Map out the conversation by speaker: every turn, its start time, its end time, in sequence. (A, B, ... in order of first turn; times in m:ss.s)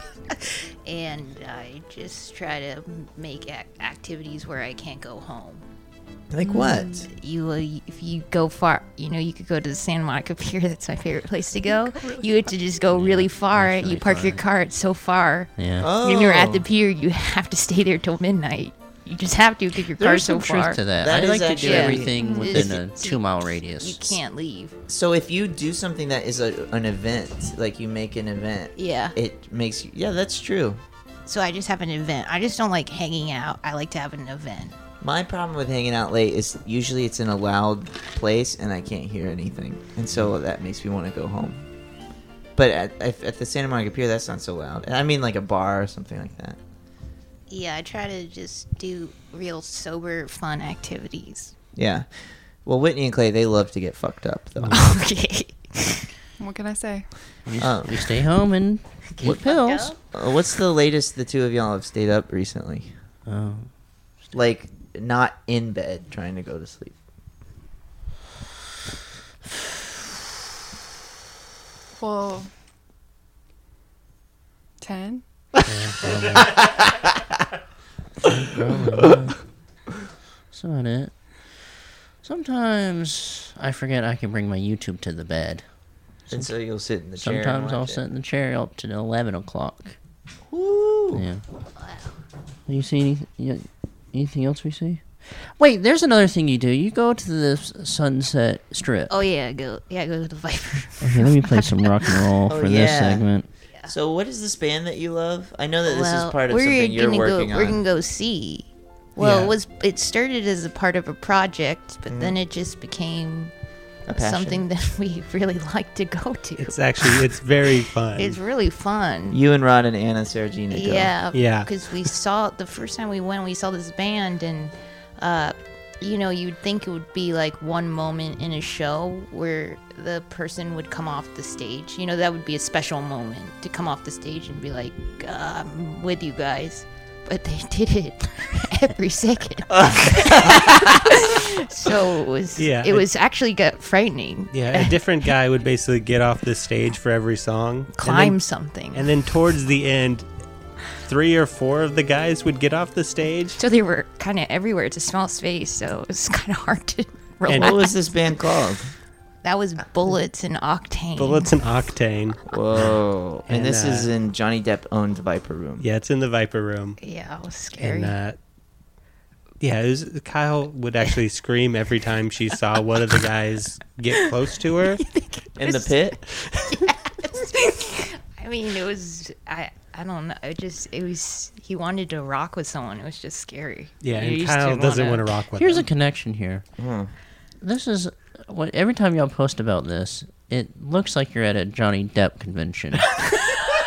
0:00.4-0:05.6 A
0:06.3-0:07.1 B
0:06.5-0:20.8 A
0:11.9-0:12.2 C
0:12.9-0:14.4 D
0:15.6-0:15.9 D
0:15.8-0:16.6 B
0:20.0-0:24.2 D
0:21.0-0:22.8 B
0:21.6-0:24.8 A
0:22.2-0:22.5 C
0:24.9-0:30.8 B
0:28.8-0:29.2 A
0:31.2-0:34.7 A
0:35.0-0:41.6 B
0:42.6-0:46.6 B
0:47.5-0:51.5 A
0:51.8-0:52.1 B
0:52.6-0:54.9 B
0:54.7-0:56.1 A
0:56.4-0:57.1 C
0:57.4-0:59.9 D
0:57.6-0:58.1 B
0:59.1-1:00.0 A
1:00.0-1:02.9 B
1:03.3-1:03.7 D
1:04.3-1:07.0 B
1:12.0-1:12.5 C
1:14.8-1:15.2 C
1:15.7-1:16.7 D
1:18.2-1:19.4 D
1:20.5-1:21.6 D
1:22.2-1:25.6 D
1:26.3-1:28.0 B
1:27.2-1:30.0 D
1:30.5-1:31.2 B
1:31.1-1:31.4 D
1:31.8-1:32.1 A
1:32.7-1:39.1 D
1:39.1-1:42.2 A
1:41.0-1:43.5 D
1:42.5-1:43.3 B
1:43.9-1:47.8 B
1:45.8-1:53.5 A
1:49.2-1:49.5 E
1:52.1-1:52.3 B
1:54.1-1:54.6 B
1:54.1-1:57.1 A
1:56.6-1:58.4 E
1:58.2-1:59.4 A
1:59.3-2:01.1 B
2:00.7-2:25.0 A
2:01.3-2:01.7 E
2:19.8-2:20.6 B
2:22.6-2:23.0 E
2:24.5-2:28.4 E
2:27.9-2:29.1 A
2:28.9-2:30.2 E
2:31.0-2:33.6 E
2:33.6-2:38.1 A
2:37.5-2:37.7 E
2:37.5-2:38.9 B
2:39.4-2:41.5 A
2:41.2-2:42.4 E
2:42.5-2:45.9 B
2:43.4-2:44.1 E
2:45.8-2:47.0 E
2:47.0-2:48.1 A
2:47.8-2:48.4 E
2:49.6-2:55.0 E
2:55.0-3:05.2 A
2:55.6-2:56.2 B
3:04.0-3:05.8 E
3:05.6-3:06.6 D
3:06.8-3:07.1 B
3:07.6-3:13.2 D